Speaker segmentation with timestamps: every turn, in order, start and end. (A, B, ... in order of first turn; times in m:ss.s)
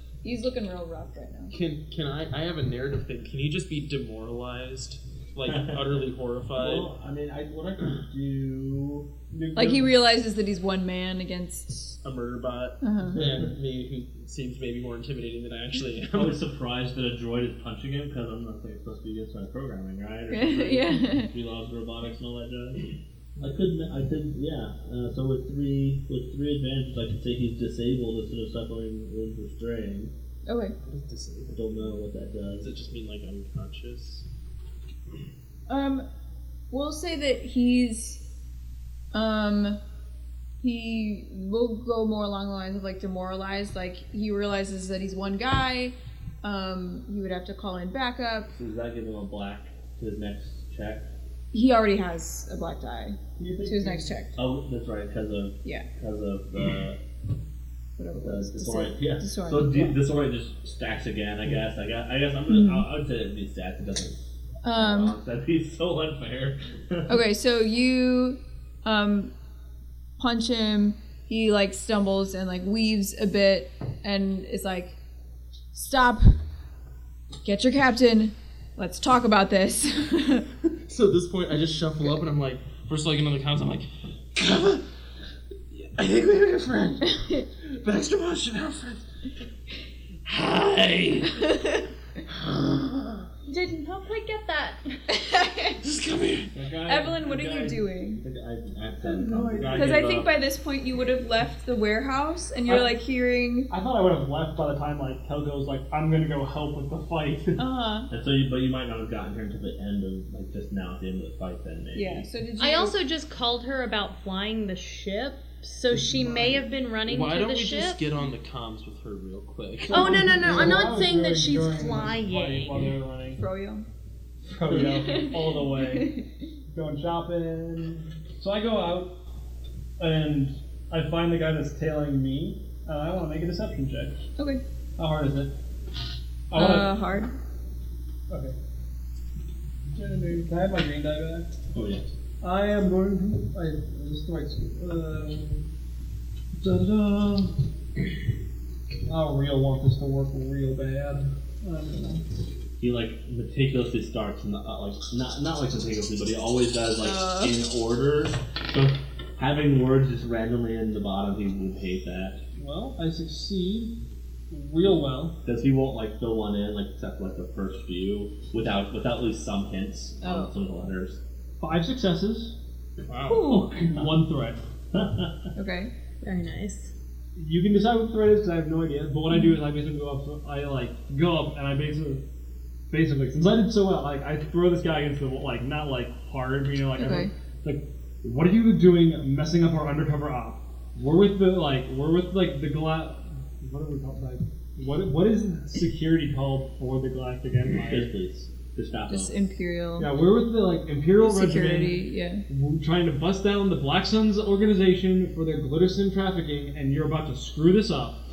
0:00.2-0:01.5 A
0:01.5-0:06.9 B
0:05.5-0:05.9 C
0:06.6-0:09.8 C
0:09.6-0:12.0 A
0:09.6-0:09.8 D
0:12.0-0:16.4 B
0:12.8-0:13.2 A
0:13.1-0:13.5 C
0:16.1-0:30.1 C
0:20.3-0:21.3 A
0:30.5-0:30.8 A
0:30.8-0:31.6 B
0:31.5-0:32.7 C
0:32.6-0:34.3 B
0:35.7-0:36.0 A
0:36.7-0:38.2 A
0:39.1-0:39.8 A
0:40.6-0:48.5 A
0:48.5-0:51.1 C
0:51.5-0:54.4 A
0:53.4-0:54.1 D
0:54.4-0:57.0 C
0:58.0-1:00.0 A
0:58.2-1:04.2 C
1:02.5-1:02.8 A
1:04.6-1:05.2 A
1:04.7-1:07.2 C
1:07.1-1:09.3 A
1:10.2-1:15.0 A
1:15.7-1:16.4 A
1:17.4-1:20.5 A
1:20.9-1:24.8 B
1:25.7-1:29.0 B
1:27.0-1:27.5 A
1:30.3-1:31.5 B
1:31.3-1:31.8 A
1:32.3-1:33.3 B
1:33.5-1:35.0 E
1:35.1-1:35.8 A
1:35.8-1:36.5 B
1:36.5-1:40.3 C
1:36.9-1:38.2 A
1:39.1-1:43.7 A
1:39.6-1:40.1 D
1:42.6-1:43.0 D
1:43.7-1:47.6 D
1:47.6-1:48.1 A
1:48.1-1:52.3 C
1:52.0-1:53.0 A
1:52.6-1:58.1 E
1:55.9-1:56.6 D
1:57.1-2:00.5 B
1:59.8-2:03.4 D
1:59.9-2:02.8 E
2:03.4-2:03.9 A
2:04.4-2:06.2 D
2:04.9-2:06.2 A
2:06.7-2:09.1 D
2:10.0-2:14.2 D
2:14.4-2:14.6 A
2:15.0-2:15.5 D
2:16.5-2:17.0 D
2:16.5-2:17.3 A
2:18.3-2:18.6 D
2:19.9-2:21.5 D
2:21.7-2:22.1 C
2:22.4-2:25.6 D
2:26.6-2:27.6 D
2:29.1-2:32.2 D
2:32.8-2:42.4 C
2:37.0-2:37.6 A
2:42.6-2:43.9 D
2:44.5-2:45.4 D
2:45.4-2:51.2 C
2:50.2-2:50.5 A
2:51.6-2:52.6 D
2:53.1-2:53.5 B
2:53.3-2:53.9 A
2:53.3-2:54.6 D
2:54.9-2:55.4 C
2:55.6-2:55.9 A
2:56.2-2:56.9 E
2:57.4-3:02.2 D
2:59.3-2:59.6 A
3:02.9-3:18.1 D
3:06.9-3:07.3 A
3:17.8-3:19.4 C
3:19.1-3:20.1 A
3:20.0-3:28.2 D
3:21.2-3:22.4 A